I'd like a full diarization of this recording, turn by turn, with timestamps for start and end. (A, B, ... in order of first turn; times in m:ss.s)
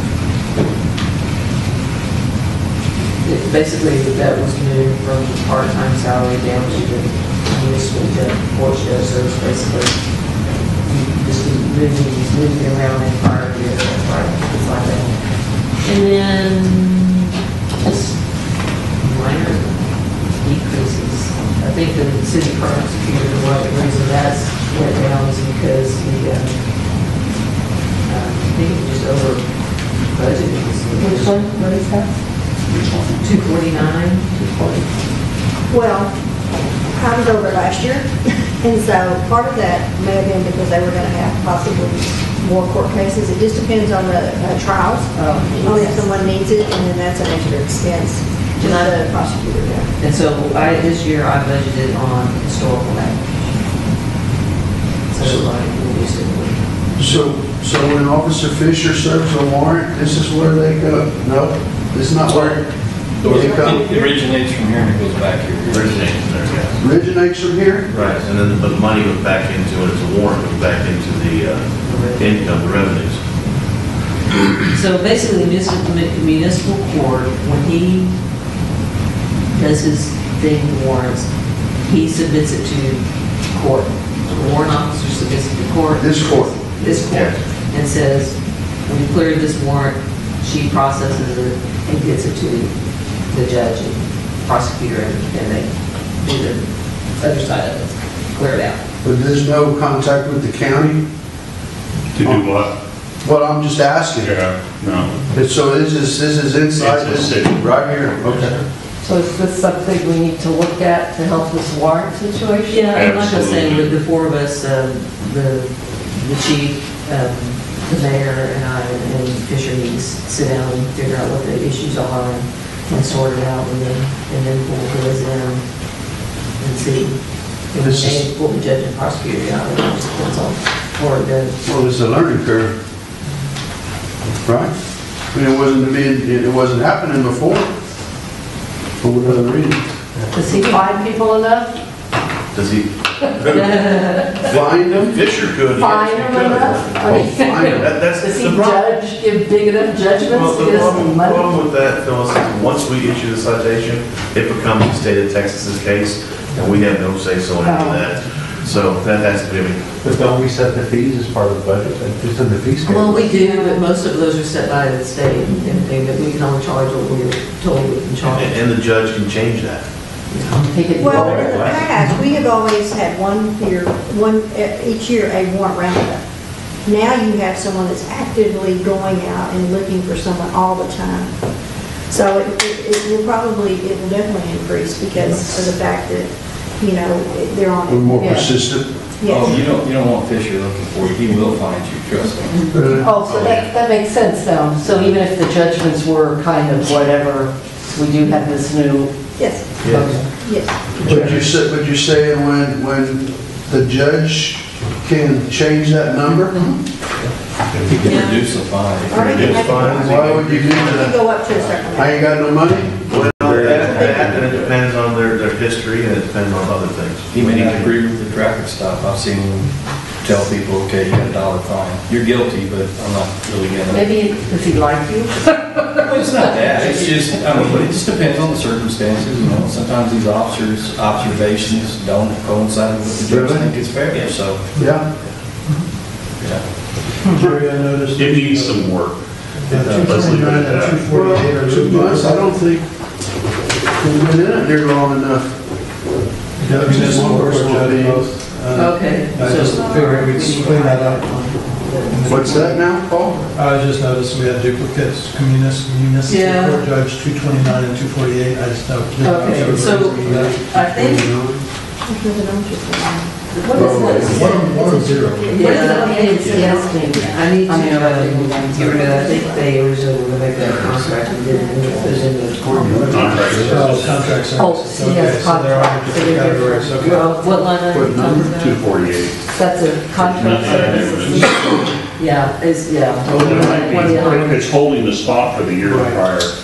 0:03.2-0:26.7 A
0:28.0-0:31.6 A
0:31.0-0:32.2 B
0:33.2-0:34.6 A
0:35.7-0:36.1 C
0:36.9-0:49.9 C
0:45.2-0:46.0 A
0:48.6-0:49.1 A
0:50.0-0:53.6 A
0:55.1-0:57.2 A
0:55.2-0:55.5 D
0:57.0-1:04.1 D
1:02.3-1:02.6 E
1:03.2-1:06.1 E
1:05.7-1:06.8 F
1:06.8-1:07.9 D
1:07.9-1:13.2 F
1:08.0-1:08.2 E
1:11.8-1:12.9 A
1:14.6-1:18.1 A
1:19.5-1:21.3 A
1:21.8-1:32.7 A
1:26.0-1:27.0 D
1:27.0-1:27.4 F
1:33.3-1:38.8 A
1:39.0-1:41.0 D
1:42.1-1:42.7 G
1:42.2-1:42.5 D
1:43.2-1:44.3 D
1:44.2-1:45.2 G
1:45.3-1:48.6 D
1:46.8-1:48.6 G
1:49.0-1:52.9 B
1:52.7-2:05.6 A
1:52.9-1:53.9 G
2:06.6-2:11.6 A
2:07.8-2:08.2 D
2:11.6-2:12.7 D
2:14.4-2:14.7 D
2:15.3-2:17.7 D
2:19.0-2:19.8 D
2:20.3-2:21.8 B
2:22.5-2:28.9 F
2:23.6-2:24.3 A
2:24.5-2:25.2 D
2:25.8-2:31.5 B
2:27.0-2:27.8 D
2:30.2-2:39.9 F
2:37.6-2:38.1 B
2:42.8-2:48.6 A
2:43.3-2:43.8 B
2:48.2-2:49.8 F
2:50.3-2:50.6 A
2:50.5-2:51.8 B
2:51.0-2:56.2 C
2:51.0-2:51.8 F
2:56.8-3:01.3 C
3:02.1-3:08.5 C
3:07.9-3:08.9 D
3:08.2-3:08.5 B
3:09.2-3:09.6 C
3:09.3-3:12.7 E
3:12.5-3:12.8 A
3:12.7-3:13.2 D
3:12.9-3:19.1 B
3:13.2-3:13.6 G
3:19.4-3:21.2 C
3:19.8-3:20.2 F
3:19.8-3:20.3 B
3:21.0-3:21.4 B
3:21.0-3:26.7 D
3:27.8-3:29.6 E
3:28.0-3:28.4 A
3:29.0-3:31.2 F
3:29.1-3:30.2 C
3:29.8-3:31.2 D
3:30.9-3:32.2 C
3:31.9-3:33.8 D
3:33.1-3:38.0 F
3:33.5-3:34.7 E
3:33.6-3:34.3 C
3:37.3-3:44.1 E
3:43.9-3:47.1 B
3:46.0-3:54.7 E
3:53.2-3:53.7 D
3:54.8-3:55.0 H
3:54.8-3:55.0 D
3:57.3-3:58.9 H
3:58.2-3:59.2 G
3:59.7-4:02.5 H
3:59.9-4:02.9 D
4:00.1-4:01.0 G
4:04.0-4:05.6 D
4:06.6-4:12.7 H
4:06.6-4:08.4 D
4:08.7-4:13.5 A
4:12.2-4:13.4 D
4:13.5-4:20.7 H
4:16.3-4:16.9 A
4:19.2-4:21.2 A
4:19.3-4:19.9 B
4:20.1-4:21.6 D
4:22.1-4:24.7 C
4:23.6-4:29.5 B
4:23.7-4:25.4 D
4:24.2-4:25.5 E
4:25.3-4:27.4 C
4:25.5-4:33.4 A
4:28.8-4:29.6 C
4:32.7-4:34.1 D
4:33.1-4:34.4 G
4:33.6-4:37.3 H
4:34.4-4:37.4 B
4:37.0-4:39.2 A
4:37.8-4:38.7 D
4:38.6-4:39.4 G
4:39.5-4:41.5 B
4:40.2-4:41.5 G
4:40.7-4:41.5 A
4:42.2-4:44.6 A
4:43.3-4:46.5 G
4:43.4-4:44.6 B
4:45.8-4:46.2 D